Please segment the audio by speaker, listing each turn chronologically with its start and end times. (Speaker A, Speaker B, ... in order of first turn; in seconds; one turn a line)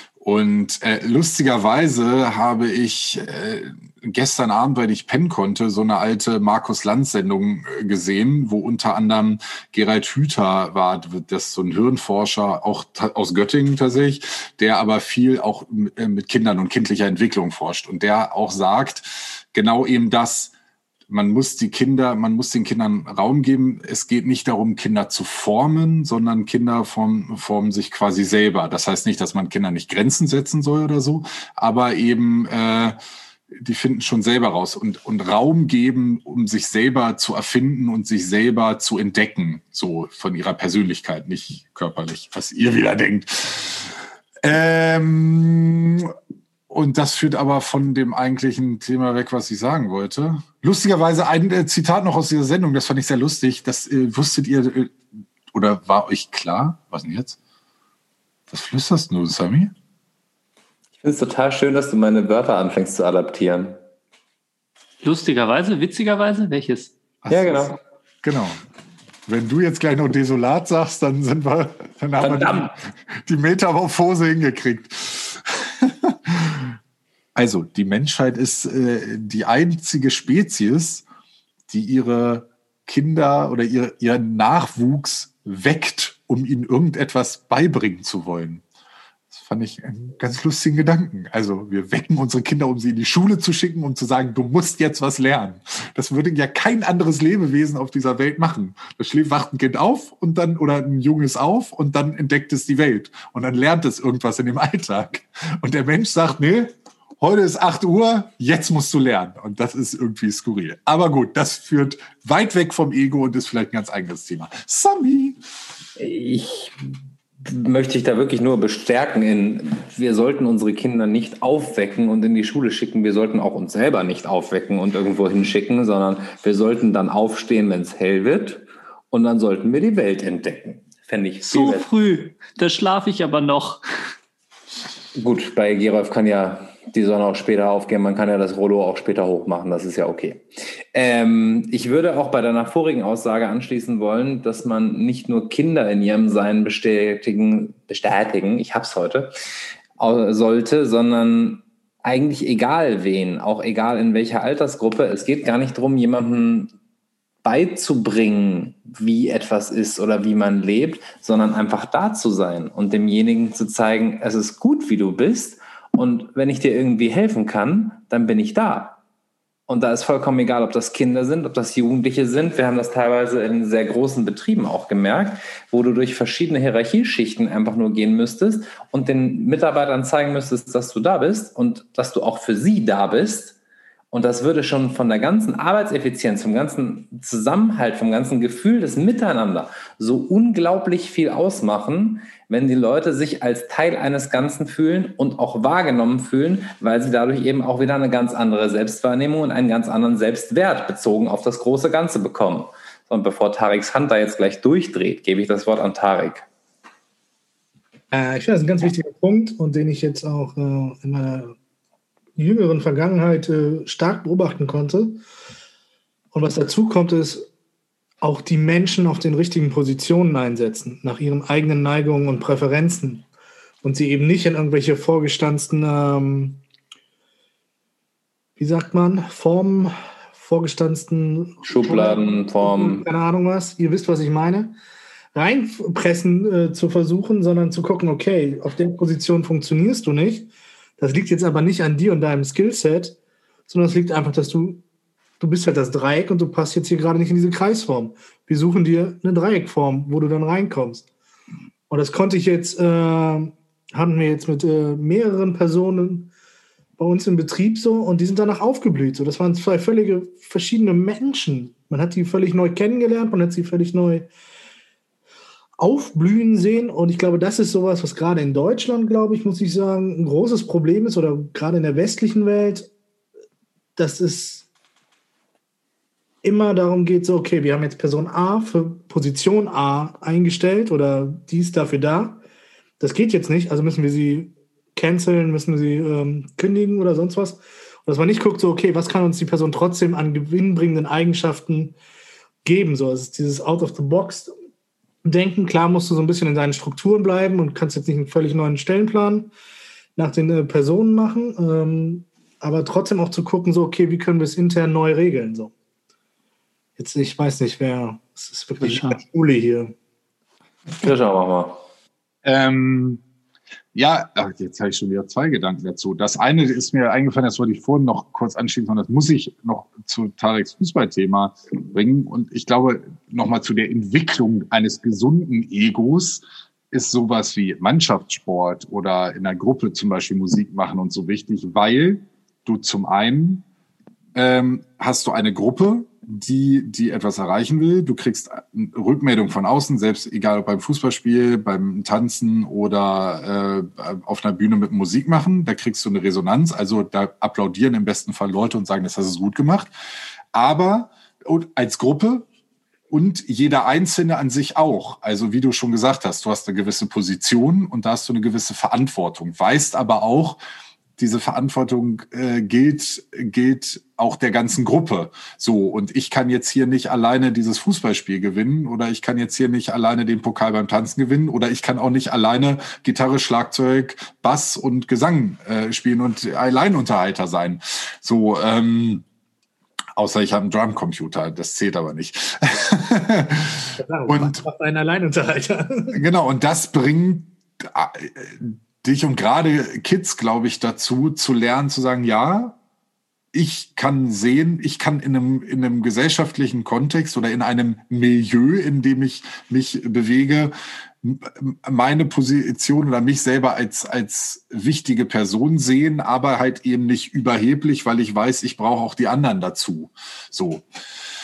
Speaker A: 0.2-20.5
Speaker A: 21.1-33.0
Speaker A: 33.5-46.1
Speaker A: 46.7-55.0
Speaker A: 55.5-57.4
Speaker A: 58.5-59.7
Speaker B: 61.0-63.8
Speaker C: 65.0-66.9
Speaker A: 67.2-68.6
Speaker B: 67.3-67.8
Speaker A: 69.3-76.7
Speaker B: 72.2-72.7
Speaker A: 77.4-81.0
Speaker A: 81.7-88.6
Speaker A: 89.3-115.4
Speaker B: 116.0-116.8
Speaker B: 117.4-131.9
Speaker C: 131.4-133.8
Speaker B: 135.2-149.3
Speaker B: 150.0-156.7
Speaker B: 157.4-169.0
Speaker B: 169.7-183.6
Speaker B: 184.1-206.5
Speaker D: 208.1-211.6
Speaker D: 212.4-215.2
Speaker D: 216.3-217.5
Speaker D: 218.2-223.3
Speaker D: 223.8-226.6
Speaker D: 228.6-234.8
Speaker B: 231.7-233.1
Speaker D: 235.3-243.2
Speaker D: 243.7-244.8
Speaker D: 245.4-251.1
Speaker D: 251.9-256.3
Speaker D: 257.0-264.3
Speaker D: 265.8-272.9
Speaker D: 274.0-274.7
Speaker D: 276.4-282.4
Speaker D: 283.0-292.0
Speaker D: 292.6-294.5
Speaker D: 295.2-299.5
Speaker D: 300.2-305.7
Speaker D: 307.0-309.9
Speaker C: 308.8-309.2
Speaker B: 311.0-311.8
Speaker A: 312.5-313.2
Speaker A: 313.9-333.6
Speaker A: 334.4-349.9
Speaker A: 350.5-352.5
Speaker A: 353.1-360.6
Speaker A: 361.2-379.2
Speaker A: 380.2-384.6
Speaker D: 384.0-386.2
Speaker A: 386.1-392.8
Speaker A: 393.5-410.8